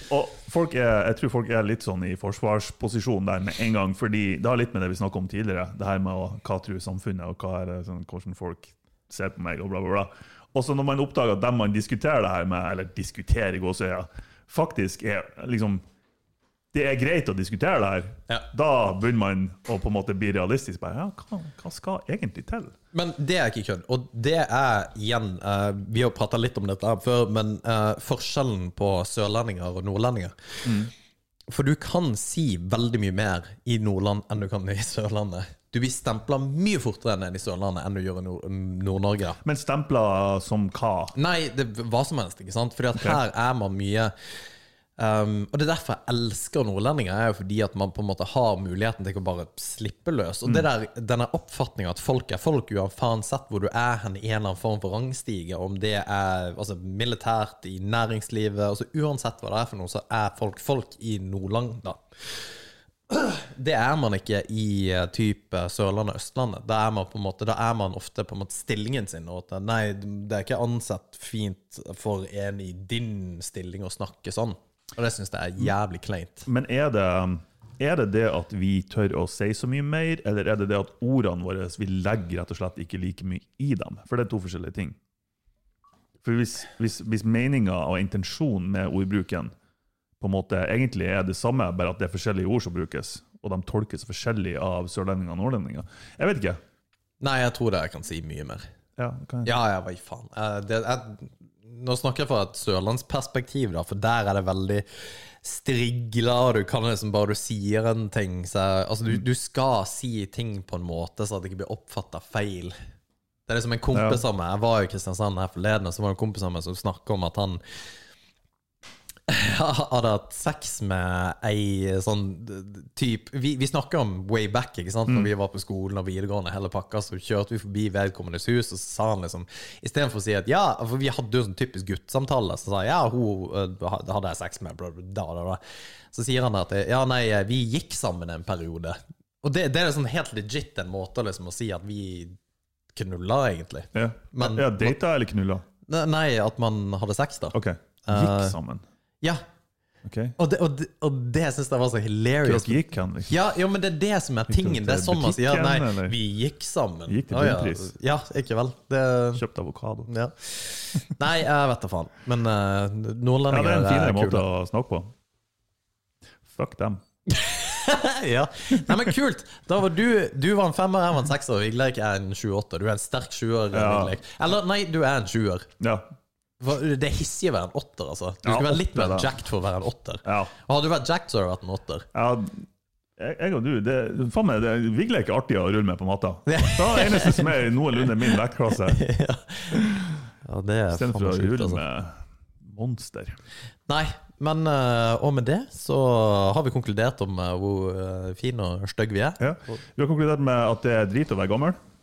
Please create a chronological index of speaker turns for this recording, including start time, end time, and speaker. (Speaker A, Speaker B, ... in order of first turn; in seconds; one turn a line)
Speaker A: 0.1-15.8
Speaker A: 16.7-22.7
Speaker B: 22.9-30.9
Speaker A: 30.6-30.9
Speaker B: 31.5-39.4
Speaker A: 39.4-41.1
Speaker B: 41.1-44.1
Speaker B: 45.0-62.0
Speaker B: 63.1-76.5
Speaker A: 76.5-85.0
Speaker A: 86.2-89.5
Speaker A: 90.2-96.6
Speaker B: 97.2-98.7
Speaker A: 99.0-99.5
Speaker B: 99.4-104.8
Speaker B: 105.4-112.7
Speaker B: 113.5-117.6
Speaker A: 113.9-114.2
Speaker B: 119.3-135.6
Speaker B: 136.1-142.3
Speaker B: 142.9-145.0
Speaker A: 143.9-145.6
Speaker B: 145.8-148.6
Speaker A: 147.5-148.8
Speaker A: 150.0-150.3
Speaker B: 150.4-159.4
Speaker A: 152.4-153.3
Speaker A: 154.5-156.2
Speaker A: 157.1-157.9
Speaker A: 159.3-160.1
Speaker B: 160.1-164.4
Speaker A: 163.5-165.1
Speaker A: 166.4-167.0
Speaker B: 167.3-175.7
Speaker A: 173.7-174.2
Speaker A: 175.8-176.1
Speaker B: 176.6-182.1
Speaker A: 178.4-179.3
Speaker A: 180.2-180.5
Speaker A: 182.1-182.7
Speaker A: 183.2-189.0
Speaker B: 186.4-189.8
Speaker A: 189.7-190.2
Speaker B: 190.4-191.8
Speaker A: 190.9-193.4
Speaker B: 193.9-199.8
Speaker A: 199.4-201.8